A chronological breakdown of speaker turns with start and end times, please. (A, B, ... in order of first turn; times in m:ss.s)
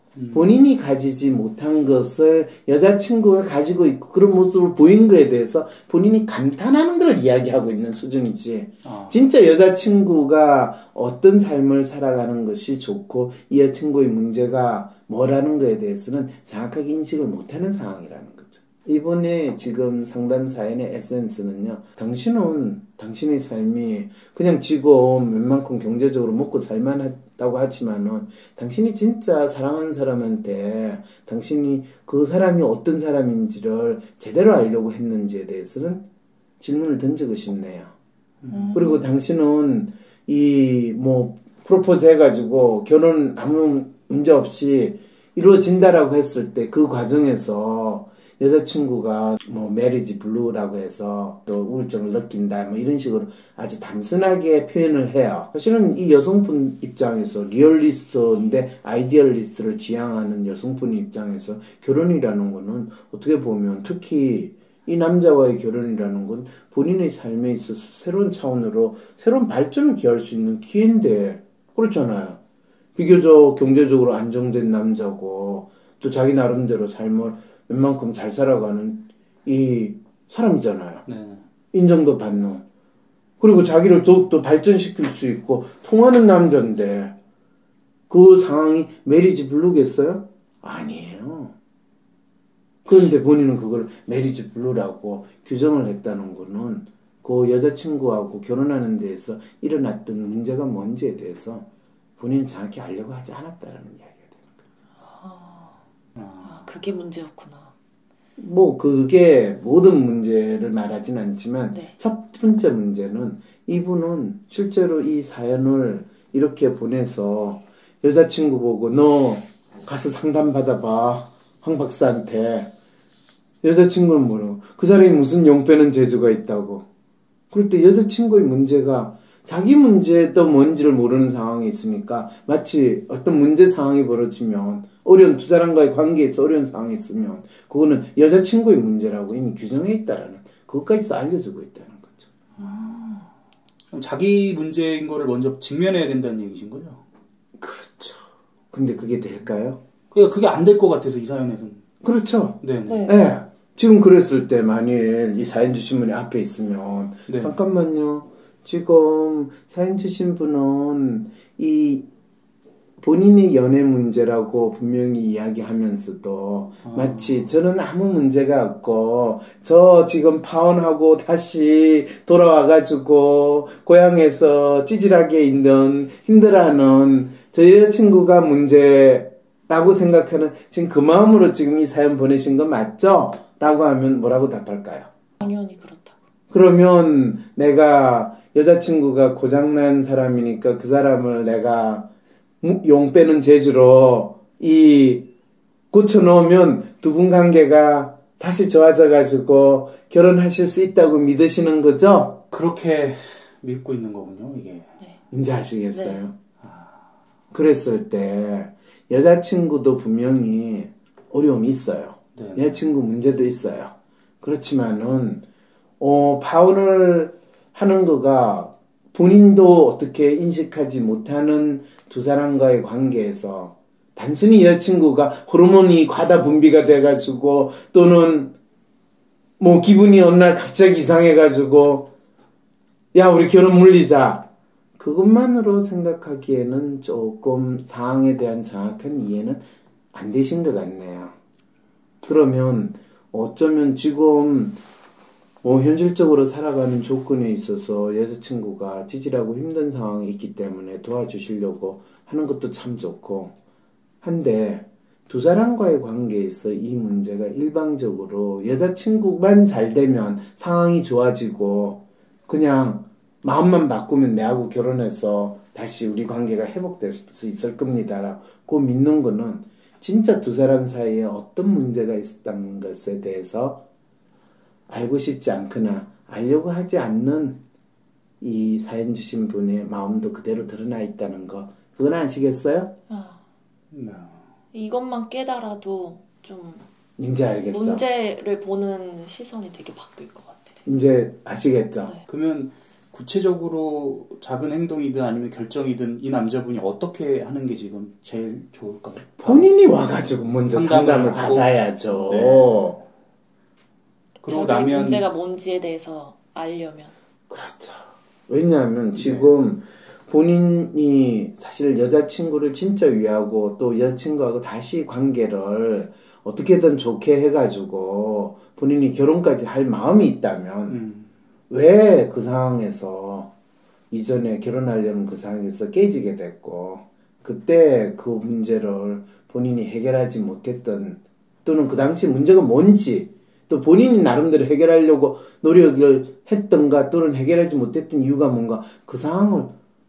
0:00.2-0:00.6 A
0:00.3-0:36.0 B
0:08.8-0:09.2 A
0:36.6-0:37.9 B
0:38.4-0:38.8 A
0:38.5-0:39.0 C
0:38.7-1:12.4 B
1:13.0-1:21.0 B
1:21.0-1:21.4 A
1:21.7-1:22.6 B
1:23.4-1:27.1 B
1:28.1-1:31.5 B
1:32.8-1:41.6 B
1:42.2-1:44.5 B
1:45.0-1:45.8 C
1:46.2-1:46.5 A
1:46.4-1:47.7 C
1:48.4-2:02.7 B
2:03.6-2:06.8 B
2:07.5-2:22.3 B
2:22.6-2:23.1 A
2:22.6-2:23.2 C
2:23.9-2:27.0 A
2:27.6-2:29.8 B
2:30.1-2:31.8 A
2:32.0-2:42.0 B
2:32.6-2:33.1 A
2:32.9-2:33.2 C
2:37.3-2:37.6 A
2:43.0-3:05.1 B
2:46.8-2:47.5 A
3:05.4-3:06.2 C
3:06.5-3:12.1 B
3:12.6-3:15.2 B
3:15.9-3:22.4 B
3:22.5-3:24.9 A
3:25.3-3:26.3 B
3:25.9-3:26.2 C
3:26.6-3:27.0 A
3:27.5-3:35.4 B
3:32.4-3:32.7 A
3:36.0-3:48.5 B
3:49.6-3:52.1 B
3:53.1-3:54.4 B
3:55.0-3:59.6 B
4:00.1-4:01.3 B
4:02.2-4:04.8 B
4:05.6-4:13.5 B
4:14.2-4:33.8 B
4:34.9-4:37.6 B
4:38.4-4:42.9 B
4:43.1-4:43.4 C
4:43.9-4:44.4 A
4:44.7-4:46.8 C
4:47.2-4:48.0 B
4:47.7-4:50.8 C
4:50.8-4:52.1 B
4:52.3-4:59.7 A
4:59.4-5:03.0 B
5:00.6-5:03.0 A
5:04.4-5:05.2 A
5:04.5-5:07.1 C
5:07.5-5:21.0 B
5:09.2-5:09.5 A
5:20.9-5:21.3 A
5:21.7-5:23.5 B
5:24.1-5:39.7 B